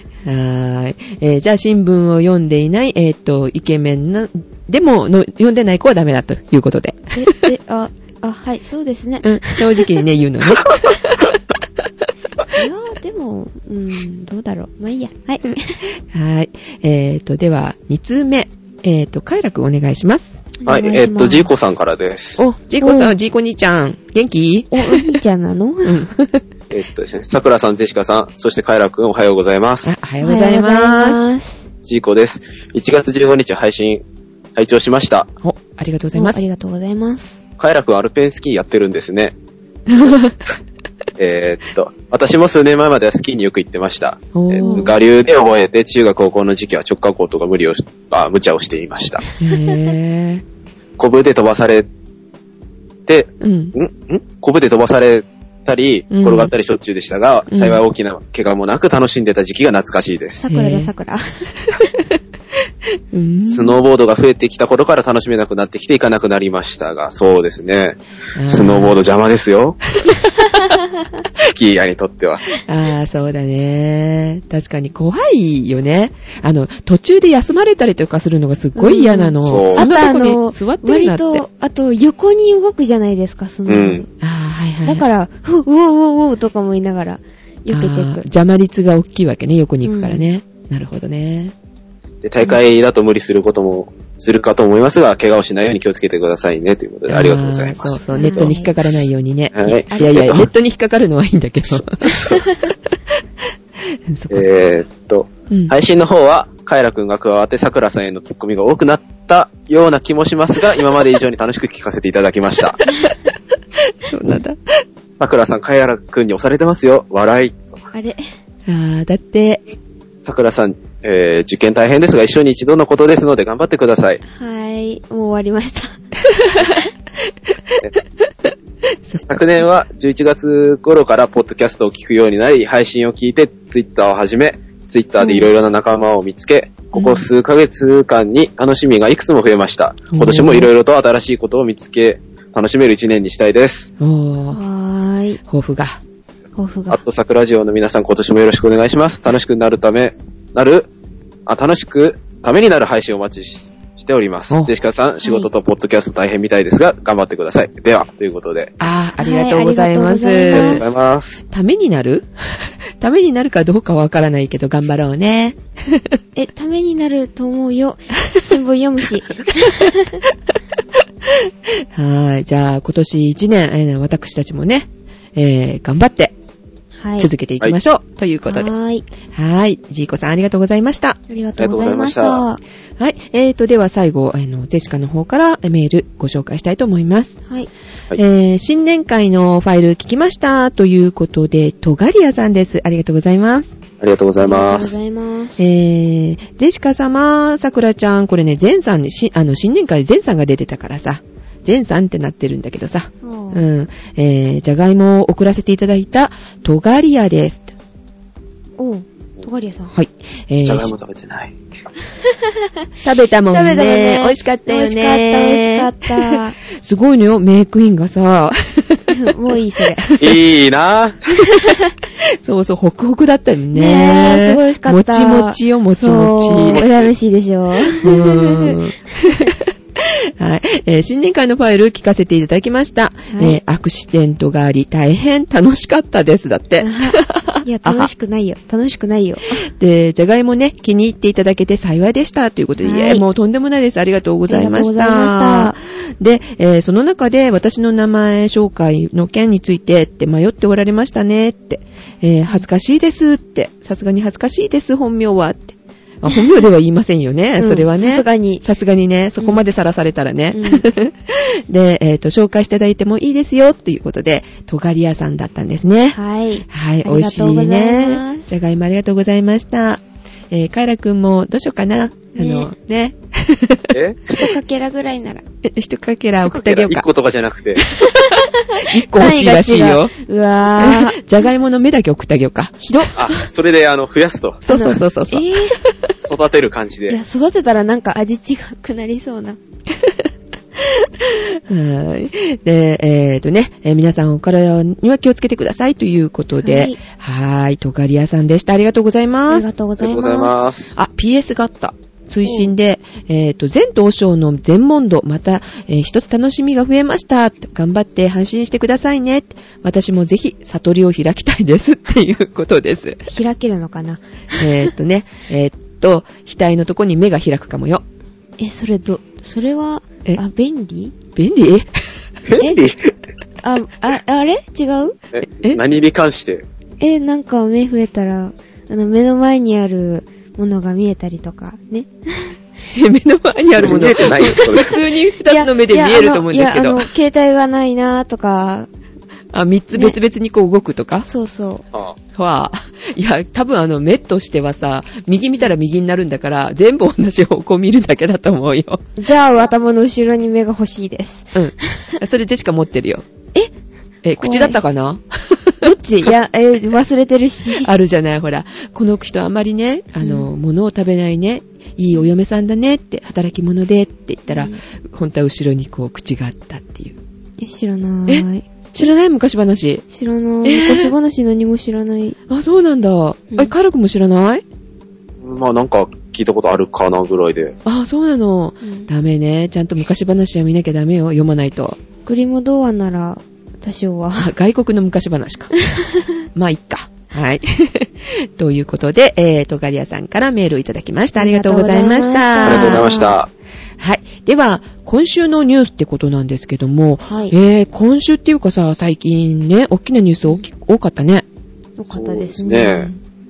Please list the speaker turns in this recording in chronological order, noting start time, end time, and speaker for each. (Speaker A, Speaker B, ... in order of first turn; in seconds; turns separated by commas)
Speaker A: 0.2-7.4, Speaker B: 7.1-10.0, Speaker A: 9.2-11.9, Speaker B: 12.5-15.8, Speaker A: 15.9-20.5, Speaker B: 20.6-21.5, Speaker C: 20.6-22.4, Speaker A: 22.4-25.1, Speaker B: 22.8-23.1, Speaker B: 24.7-26.1, Speaker A: 25.8-26.4, Speaker C: 26.7-29.9, Speaker A: 29.8-31.2, Speaker B: 30.2-31.7, Speaker C: 31.8-34.0, Speaker C: 34.5-35.3, Speaker A: 35.4-36.4, Speaker B: 36.1-37.4, Speaker C: 37.6-39.3, Speaker A: 39.9-40.5, Speaker C: 41.2-49.2, Speaker A: 44.3-44.9, Speaker B: 44.6-44.9, Speaker A: 49.4-50.4, Speaker C: 51.0-51.9, Speaker C: 53.1-60.5, Speaker A: 53.4-53.7, Speaker A: 56.1-56.5, Speaker A: 57.5-57.8, Speaker B: 60.4-61.2, Speaker A: 60.5-60.9, Speaker A: 63.1-63.8, Speaker C: 63.4-69.9, Speaker A: 68.3-69.0, Speaker B: 70.4-71.2, Speaker C: 71.3-72.5, Speaker A: 72.7-81.4, Speaker B: 78.8-84.1, Speaker C: 79.4-79.9, Speaker C: 83.7-84.0, Speaker A: 84.2-85.0, Speaker B: 84.8-88.2, Speaker A: 87.7-91.5, Speaker B: 89.8-90.2, Speaker C: 92.2-98.5, Speaker A: 97.1-103.0, Speaker B: 98.1-98.7, Speaker C: 99.5-100.5, Speaker C: 101.7-102.5, Speaker A: 103.8-104.5, Speaker C: 104.3-112.8, Speaker A: 113.9-114.6, Speaker C: 115.2-117.8, Speaker B: 117.9-118.2, Speaker A: 118.7-119.6, Speaker C: 120.2-124.2, Speaker B: 124.3-126.9, Speaker A: 126.4-126.8, Speaker A: 127.5-127.8, Speaker A: 129.1-129.4, Speaker C: 129.2-143.9, Speaker B: 135.2-135.5, Speaker B: 136.9-137.2, Speaker A: 140.1-140.7, Speaker A: 144.0-144.6, Speaker B: 144.5-145.4, Speaker A: 145.5-146.0, Speaker B: 146.6-147.0, Speaker C: 146.9-150.9, Speaker C: 151.4-158.7, Speaker B: 155.2-155.5, Speaker A: 158.8-160.9, Speaker B: 159.2-160.9, Speaker C: 160.5-161.4, Speaker A: 161.5-166.2, Speaker B: 166.3-170.2, Speaker A: 171.2-176.3, Speaker B: 177.0-177.3, Speaker A: 177.2-178.7, Speaker B: 178.5-179.1, Speaker A: 179.3-181.2, Speaker B: 181.3-182.6, Speaker C: 181.6-182.4, Speaker A: 183.0-187.4, Speaker A: 188.2-193.8, Speaker C: 194.0-195.0, Speaker B: 194.4-195.6, Speaker A: 195.6-207.7, Speaker B: 203.2-203.6, Speaker B: 208.8-209.9, Speaker A: 209.9-210.9, Speaker C: 210.6-211.6, Speaker A: 213.0-219.1, Speaker B: 213.5-216.6, Speaker B: 219.1-220.2, Speaker A: 220.0-220.3, Speaker C: 220.2-221.3, Speaker B: 221.5-221.9, Speaker A: 222.2-226.8, Speaker B: 223.7-229.5, Speaker C: 226.5-227.1, Speaker A: 228.0-238.1, Speaker B: 233.3-233.6, Speaker B: 236.8-239.7, Speaker A: 239.6-266.2, Speaker B: 242.8-243.2, Speaker B: 244.5-245.7, Speaker B: 256.2-256.6, Speaker B: 257.6-258.6, Speaker B: 260.5-260.9, Speaker B: 266.1-268.5, Speaker A: 266.7-273.9, Speaker B: 272.3-272.7, Speaker C: 273.9-274.4, Speaker B: 274.3-275.4, Speaker A: 275.6-277.1, Speaker C: 276.4-277.9, Speaker B: 277.9-281.2, Speaker A: 278.2-280.1, Speaker A: 280.8-283.1, Speaker B: 282.8-283.4, Speaker C: 283.1-284.6, Speaker A: 284.6-286.1, Speaker B: 284.7-285.8, Speaker C: 286.2-287.2, Speaker B: 287.1-289.6, Speaker A: 289.9-290.3, Speaker A: 290.8-299.7, Speaker B: 296.6-297.0, Speaker B: 299.5-300.7, Speaker C: 300.0-300.9, Speaker A: 300.9-313.3, Speaker B: 302.4-302.7, Speaker B: 313.3-314.6, Speaker A: 314.5-318.0, Speaker B: 318.6-321.1, Speaker A: 321.4-322.2, Speaker C: 322.4-323.1, Speaker B: 323.6-325.1, Speaker C: 325.3-326.6, Speaker B: 327.0-332.6, Speaker A: 332.9-337.1, Speaker C: 333.8-335.0, Speaker B: 335.4-338.9, Speaker A: 339.5-341.3, Speaker B: 339.9-340.2, Speaker B: 341.2-341.8, Speaker A: 342.3-349.1, Speaker B: 349.2-352.2, Speaker A: 351.5-353.2, Speaker A: 354.2-355.8, Speaker B: 354.4-354.8, Speaker B: 355.8-357.9, Speaker A: 357.8-367.2, Speaker B: 360.2-360.5, Speaker B: 364.5-364.8, Speaker B: 367.6-369.1, Speaker A: 368.3-370.0, Speaker B: 370.1-372.4, Speaker A: 370.6-371.1, Speaker A: 372.5-374.6, Speaker C: 375.4-377.8, Speaker A: 377.8-382.0, Speaker B: 378.8-379.1, Speaker B: 382.2-384.5, Speaker A: 384.4-385.7, Speaker B: 385.9-386.2, Speaker A: 386.5-393.1, Speaker B: 391.4-393.4, Speaker C: 392.6-393.5, Speaker A: 394.0-401.4, Speaker B: 397.2-397.5, Speaker B: 402.0-403.2, Speaker C: 402.1-403.1